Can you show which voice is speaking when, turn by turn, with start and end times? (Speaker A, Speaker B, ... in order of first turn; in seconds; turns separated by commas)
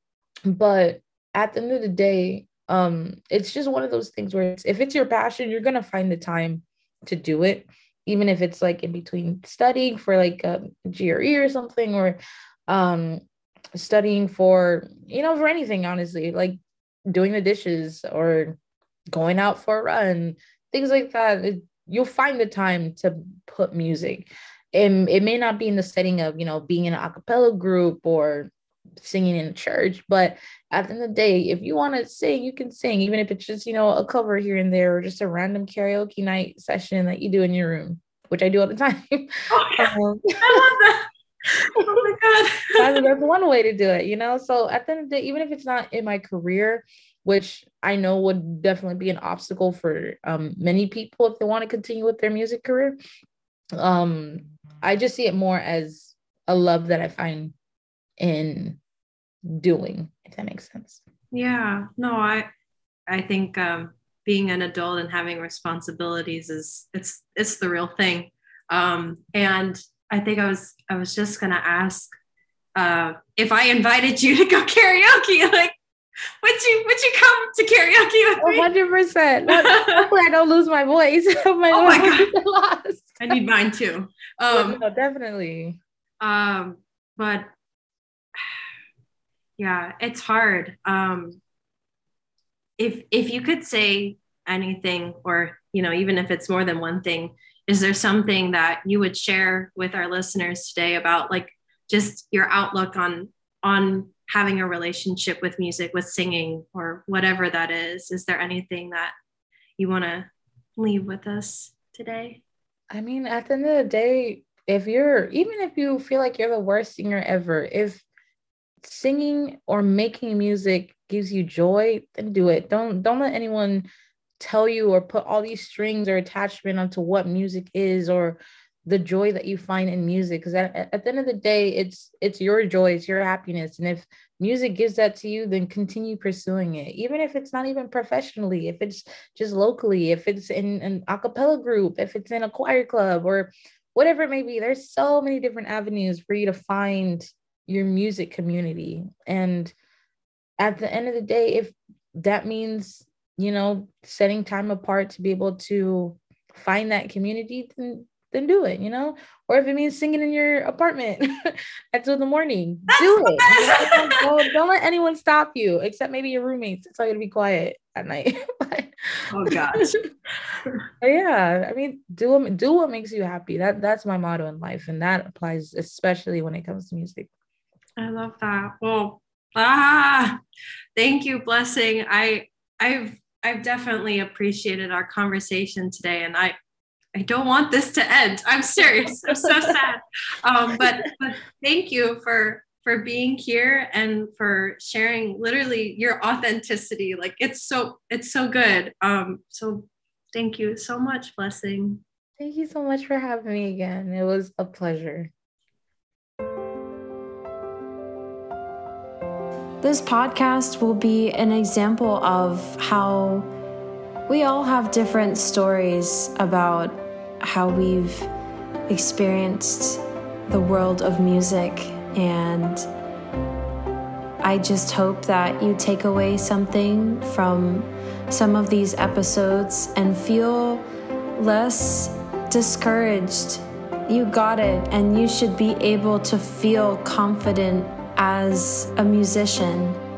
Speaker A: 0.5-13.2, Speaker A: 13.7-16.6, Speaker A: 17.1-18.6, Speaker A: 19.1-40.6, Speaker B: 39.5-41.0, Speaker B: 41.6-43.0, Speaker A: 42.8-53.0, Speaker A: 53.8-57.5, Speaker A: 58.2-58.8, Speaker A: 59.5-61.0, Speaker B: 61.3-62.5, Speaker B: 63.1-72.1, Speaker B: 72.8-75.8, Speaker B: 76.4-78.7, Speaker A: 78.4-83.3, Speaker B: 79.5-80.0, Speaker B: 81.7-82.3, Speaker B: 83.2-84.8, Speaker A: 84.5-85.8, Speaker B: 86.2-87.5, Speaker B: 89.6-91.4, Speaker B: 92.8-109.1, Speaker B: 109.8-112.4, Speaker A: 112.9-118.0, Speaker A: 118.8-123.8, Speaker A: 124.4-149.7, Speaker A: 150.6-169.2, Speaker B: 163.0-164.3, Speaker B: 169.3-169.9, Speaker A: 171.0-177.3, Speaker B: 178.0-180.4, Speaker B: 180.9-186.5, Speaker B: 187.1-202.0, Speaker A: 189.0-189.8, Speaker A: 202.4-205.3, Speaker C: 209.8-213.5, Speaker C: 214.3-218.3, Speaker C: 218.9-222.8, Speaker C: 224.4-230.8, Speaker C: 231.3-240.0